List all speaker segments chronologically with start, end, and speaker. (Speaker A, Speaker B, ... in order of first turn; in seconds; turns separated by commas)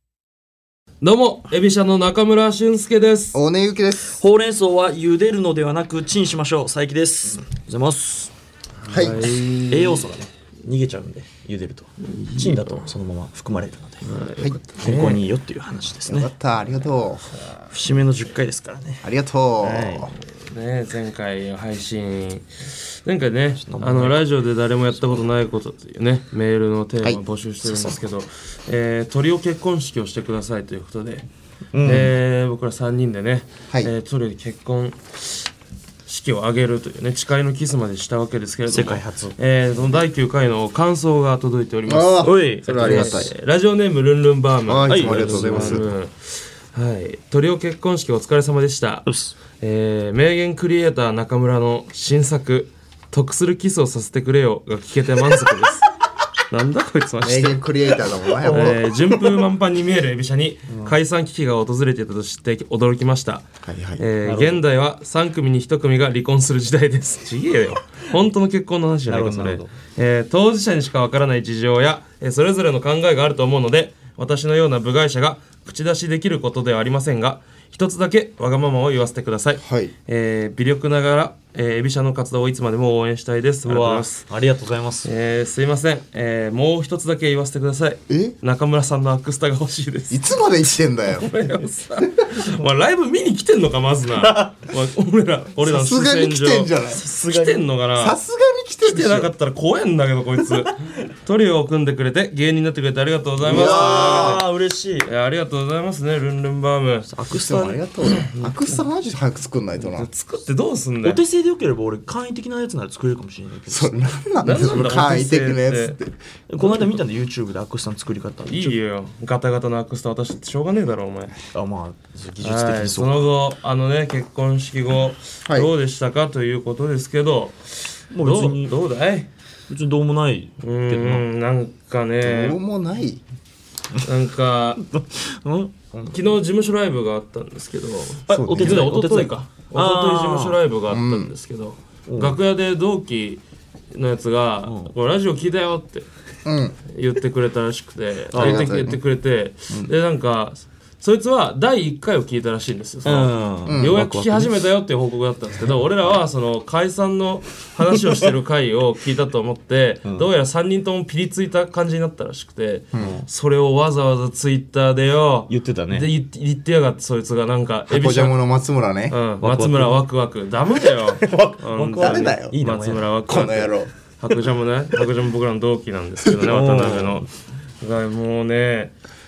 Speaker A: 1.0-3.4, Speaker B: 3.3-4.2, Speaker C: 4.2-8.3, Speaker B: 8.9-9.3, Speaker A: 8.9-10.1, Speaker C: 9.7-14.1, Speaker A: 12.1-12.8, Speaker A: 14.0-15.2, Speaker B: 14.4-15.0, Speaker C: 14.8-16.3, Speaker B: 16.1-17.3, Speaker C: 17.7-20.1, Speaker B: 19.0-20.1, Speaker A: 20.5-22.5, Speaker A: 23.0-31.3, Speaker C: 23.6-24.2, Speaker C: 31.7-32.1, Speaker A: 31.8-35.4, Speaker A: 36.1-46.1, Speaker C: 38.7-39.3, Speaker B: 41.9-43.3, Speaker C: 42.2-43.2, Speaker B: 44.7-45.9, Speaker C: 44.9-45.8, Speaker A: 46.7-49.0, Speaker C: 49.0-49.3, Speaker A: 49.6-55.8, Speaker A: 56.5-57.6, Speaker B: 57.2-58.9, Speaker C: 58.3-59.4, Speaker A: 58.5-63.4, Speaker C: 60.7-60.9, Speaker B: 63.6-64.0, Speaker A: 64.0-84.2, Speaker C: 64.2-64.6, Speaker C: 69.1-69.7, Speaker B: 79.6-79.9, Speaker C: 83.6-85.1, Speaker A: 85.0-90.3, Speaker B: 88.1-88.3, Speaker B: 90.1-91.3, Speaker A: 91.1-98.2, Speaker C: 94.2-94.5, Speaker B: 95.6-97.0, Speaker C: 96.9-97.7, Speaker B: 98.0-99.3, Speaker A: 98.8-104.4, Speaker B: 103.4-104.4, Speaker C: 103.4-105.1, Speaker A: 105.0-107.1, Speaker C: 107.1-107.8, Speaker B: 107.3-110.1, Speaker A: 108.2-108.5, Speaker A: 109.8-111.2, Speaker C: 111.0-114.6, Speaker B: 113.7-116.1, Speaker A: 114.4-116.0, Speaker C: 116.5-118.8, Speaker A: 118.5-121.3, Speaker C: 121.5-123.3, Speaker A: 122.4-127.5, Speaker C: 128.1-128.7, Speaker A: 128.2-129.3, Speaker C: 129.7-131.2, Speaker A: 130.6-132.6, Speaker B: 132.2-133.2, Speaker A: 134.0-134.8, Speaker C: 134.8-136.2, Speaker A: 136.1-146.1, Speaker C: 138.2-140.6, Speaker B: 138.3-138.9, Speaker B: 140.9-141.3, Speaker C: 142.1-142.4, Speaker C: 144.6-144.9, Speaker B: 146.4-146.8, Speaker A: 146.9-168.4, Speaker C: 148.3-148.9, Speaker B: 148.3-149.0, Speaker C: 153.0-154.5, Speaker B: 153.7-154.0, Speaker C: 155.7-156.1, Speaker B: 162.9-163.2, Speaker C: 162.9-163.3, Speaker C: 165.5-166.1, Speaker B: 167.9-169.2, Speaker A: 169.1-177.3, Speaker C: 169.4-170.0, Speaker C: 170.9-173.1, Speaker B: 172.0-172.6, Speaker B: 173.2-173.9, Speaker C: 176.4-177.2, Speaker A: 177.8-178.9